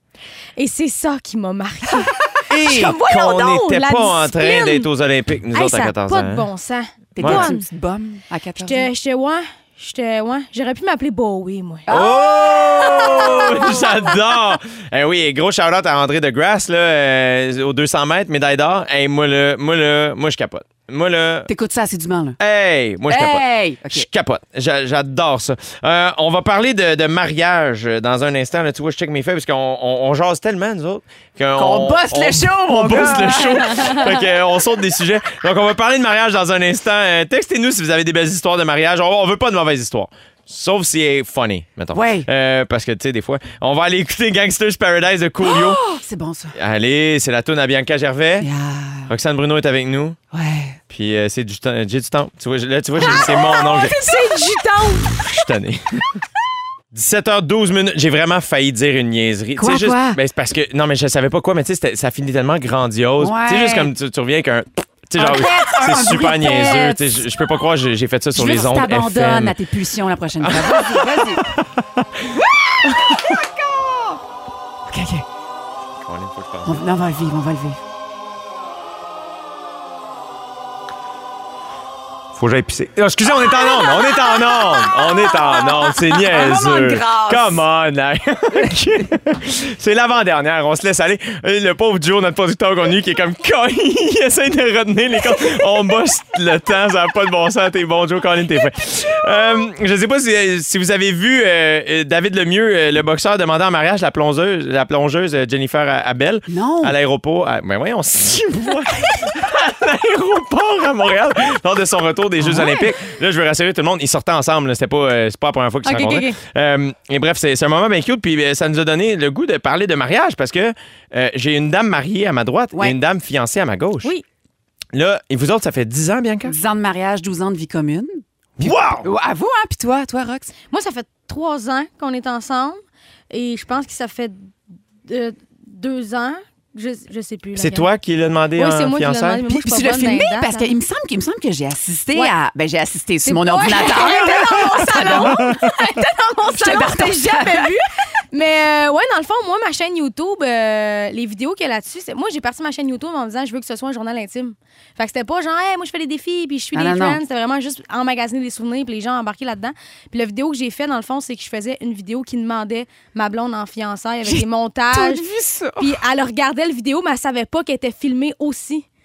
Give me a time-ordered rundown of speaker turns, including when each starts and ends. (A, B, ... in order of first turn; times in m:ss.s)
0:00.6-0:04.9 A
0:02.5-0:06.5 B
0:05.5-0:07.6 A
0:07.2-0:08.9 C
0:07.2-0:07.5 B
0:08.6-0:11.9 A
0:11.9-0:13.8 C
0:11.9-0:21.5 B
0:21.5-0:22.4 C
0:22.4-0:45.8 B
0:23.1-0:24.0 C
0:31.6-0:34.1 C
0:41.9-0:42.3 C
0:45.4-0:46.5 C
0:46.6-0:48.5 B
0:48.4-0:49.1 C
0:49.1-0:50.2 B
0:50.3-0:50.8 C
0:50.9-0:54.1 B
0:53.0-0:55.2 C
0:53.9-0:55.0 A
0:55.1-0:56.0 B
0:56.9-1:09.6 B
0:59.6-1:00.2 C
1:03.2-1:03.9 C
1:05.2-1:07.2 C
1:08.3-1:11.4 C
1:10.4-1:11.6 B
1:12.3-1:14.2 C
1:14.9-1:15.2 C
1:16.0-1:16.8 B
1:16.6-1:17.8 C
1:22.4-2:04.1 B
1:23.3-1:27.6 C
1:46.5-1:46.9 C
1:52.4-1:52.8 C
1:55.8-1:56.4 A
2:04.9-2:06.5 B
2:06.4-2:10.5 C
2:08.6-2:09.1 B
2:10.7-2:12.8 A
2:13.3-2:14.4 A
2:15.1-2:17.9 A
2:17.6-2:19.4 B
2:18.6-2:20.7 A
2:19.5-2:25.6 C
2:23.2-2:45.2 A
2:26.5-2:27.7 C
2:36.7-2:37.2 C
2:44.2-2:45.9 C
2:45.8-2:48.8 A